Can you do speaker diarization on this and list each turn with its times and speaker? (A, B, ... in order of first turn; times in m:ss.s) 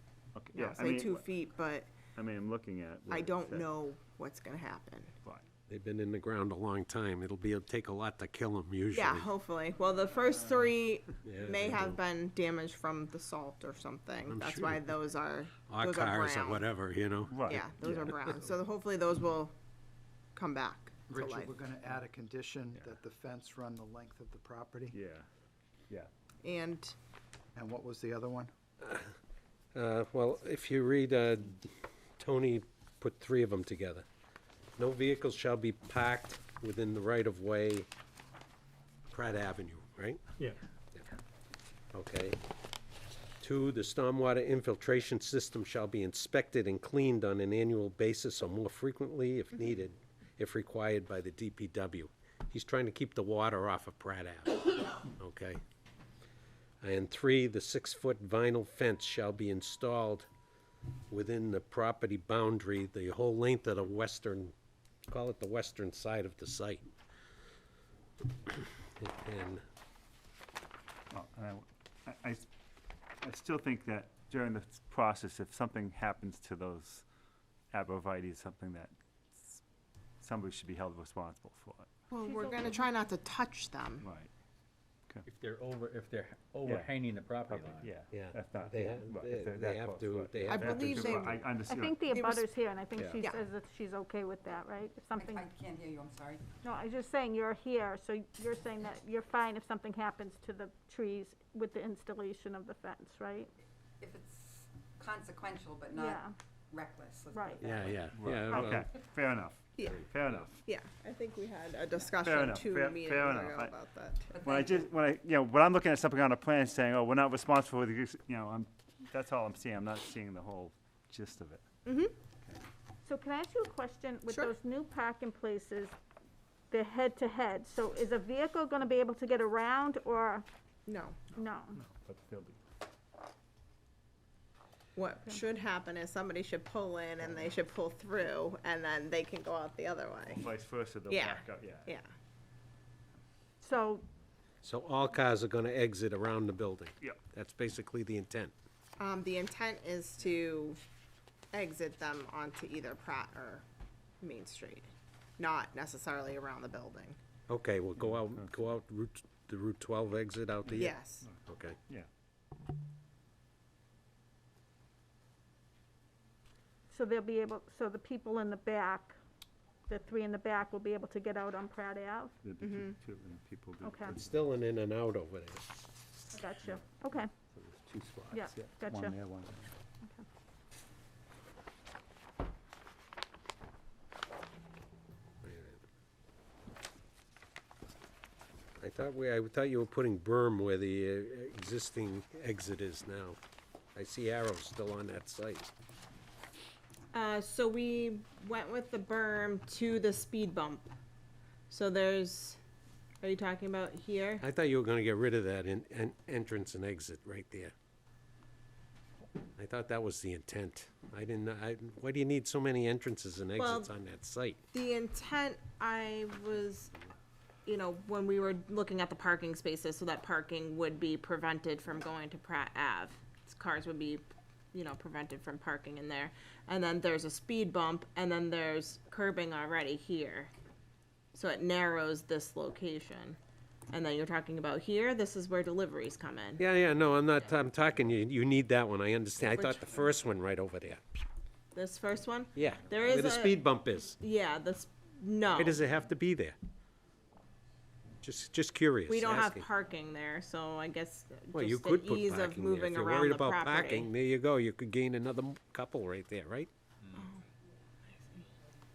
0:00.3-0:01.2 A
0:00.5-0:01.9 B
0:02.1-0:03.7 A
0:03.1-0:05.1 B
0:05.7-0:09.3 C
0:08.9-0:16.7 B
0:11.2-0:12.0 C
0:14.3-0:14.8 C
0:15.7-0:18.5 C
0:17.3-0:17.6 A
0:17.5-0:19.5 B
0:20.3-0:21.5 B
0:21.1-0:25.0 D
0:22.7-0:23.0 A
0:24.9-0:25.3 A
0:26.4-0:26.9 B
0:27.5-0:28.5 D
0:28.8-0:29.1 C
0:29.7-0:31.7 C
0:32.2-0:34.0 C
0:34.8-0:37.9 C
0:39.1-0:40.2 C
0:41.9-0:42.4 C
0:43.4-0:54.6 C
0:55.2-0:55.6 C
0:56.8-1:00.3 C
1:01.1-1:04.5 C
1:05.1-1:06.9 C
1:09.0-1:09.6 C
1:11.1-1:12.4 A
1:13.2-1:17.0 A
1:17.7-1:19.6 A
1:20.2-1:21.9 A
1:22.1-1:24.0 B
1:22.2-1:22.8 E
1:24.0-1:24.3 A
1:25.2-1:27.9 F
1:26.6-1:26.9 A
1:27.5-1:32.0 A
1:28.1-1:31.4 C
1:30.5-1:31.4 B
1:31.7-1:35.5 E
1:32.1-1:32.5 B
1:35.2-1:36.4 G
1:36.6-1:43.5 E
1:44.0-1:47.9 G
1:46.0-1:46.3 E
1:47.3-1:47.6 E
1:47.6-1:48.9 C
1:48.1-1:50.6 A
1:49.8-1:50.0 B
1:50.6-1:54.4 B
1:52.2-1:53.7 A
1:54.4-2:01.6 A
2:01.8-2:02.1 B
2:03.0-2:05.9 E
2:04.3-2:04.5 B
2:06.7-2:10.4 E
2:10.9-2:11.2 B
2:11.3-2:11.8 E
2:11.7-2:12.6 A
2:15.0-2:20.5 B
2:20.2-2:21.9 A
2:21.1-2:22.1 B
2:23.6-2:24.0 E
2:24.6-2:28.5 C
2:29.0-2:30.8 B
2:31.5-2:33.6 B
2:34.2-2:37.2 B
2:37.5-2:40.9 C
2:38.0-2:38.7 A
2:40.7-2:42.1 A
2:40.7-2:41.2 B
2:41.5-2:41.8 C
2:46.9-2:49.2 E
2:49.9-2:52.3 E
2:52.4-2:54.4 A
2:52.6-2:53.0 B
2:53.8-2:54.2 E
2:54.1-2:55.6 C
2:56.3-2:57.3 E
2:56.6-2:59.7 A
2:58.3-2:59.1 E
3:05.4-3:05.8 C
3:08.8-3:13.4 C
3:13.9-3:15.7 C
3:17.1-3:20.9 B
3:21.7-3:22.6 B
3:23.2-3:24.4 B
3:24.4-3:27.7 C
3:29.6-3:34.6 C
3:33.6-3:33.9 B
3:34.7-3:36.9 B
3:37.6-3:50.5 B
3:51.3-3:53.4 B
3:53.9-3:56.6 B
3:56.6-4:01.2 C
3:59.6-4:00.0 B
4:01.7-4:03.6 B
4:02.5-4:04.2 C
4:04.2-4:05.8 B
4:05.5-4:06.6 C
4:08.2-4:09.6 C
4:09.1-4:14.1 B
4:11.5-4:16.7 C
4:17.1-4:17.4 B
4:18.1-4:18.4 B